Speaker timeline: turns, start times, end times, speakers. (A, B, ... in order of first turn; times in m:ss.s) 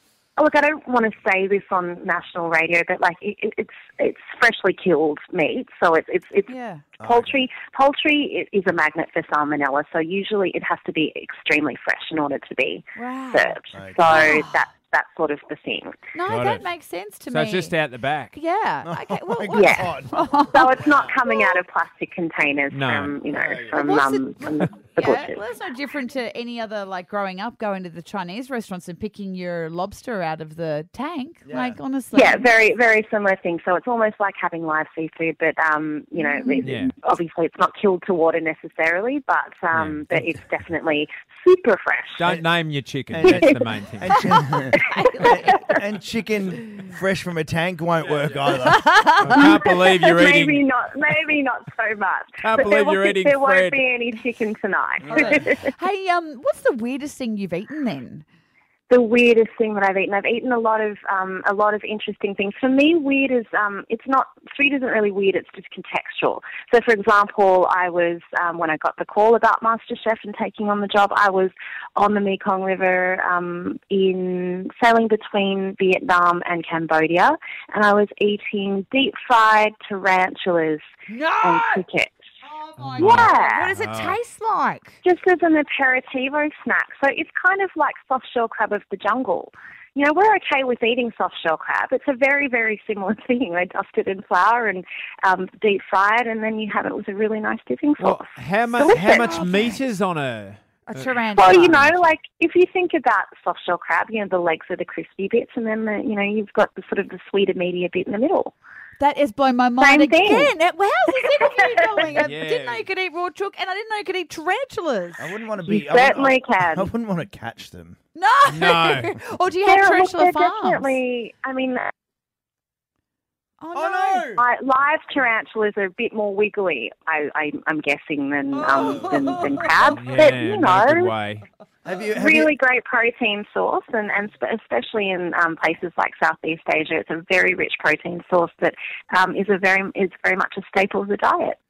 0:00.4-0:16.0 A
0:06.5-0:06.9 B
0:07.0-0:07.4 C
0:13.0-0:13.5 B
0:13.7-0:14.3 C
0:14.0-0:14.6 B
0:16.1-0:17.8 B
0:16.3-0:16.7 D
0:17.3-0:18.3 D
0:18.3-0:20.9 B
0:18.8-0:21.1 C
0:19.5-0:19.9 A
0:20.5-0:25.4 A
0:22.7-0:23.2 D
0:23.3-0:23.8 C
0:23.7-0:32.5 B
0:31.5-0:31.8 C
0:32.1-0:42.3 A
0:36.2-0:36.7 B
0:36.6-0:36.9 D
0:39.7-0:40.0 D
0:42.2-0:44.2 D
0:43.1-0:49.0 C
0:43.2-0:43.6 A
0:44.2-0:45.6 B
0:44.8-0:45.6 A
0:48.0-0:48.5 D
0:48.6-0:49.4 B
0:49.2-0:50.6 D
0:49.3-0:55.7 A
0:52.4-0:53.8 D
0:55.1-0:55.4 C
0:55.1-0:58.2 B
0:58.9-1:20.8 A
1:21.1-1:21.8 B
1:21.4-1:22.2 A
1:22.4-1:25.0 B
1:22.8-1:24.2 D
1:23.0-1:23.7 A
1:25.0-1:39.7 A
1:38.0-1:42.0 D
1:38.9-1:39.5 B
1:40.8-1:41.8 B
1:41.4-1:48.5 A
1:49.0-1:55.3 B
1:49.8-1:50.5 A
1:52.1-1:52.8 D
1:55.2-1:58.0 C
1:55.7-1:56.9 A
1:58.2-2:01.0 B
1:58.5-1:59.2 D
1:59.7-2:01.9 A
2:03.6-2:04.2 B
2:03.7-2:04.4 C
2:04.3-2:11.1 A
2:08.8-2:09.3 B
2:09.8-2:11.5 D
2:11.8-2:12.5 C
2:12.2-2:21.6 A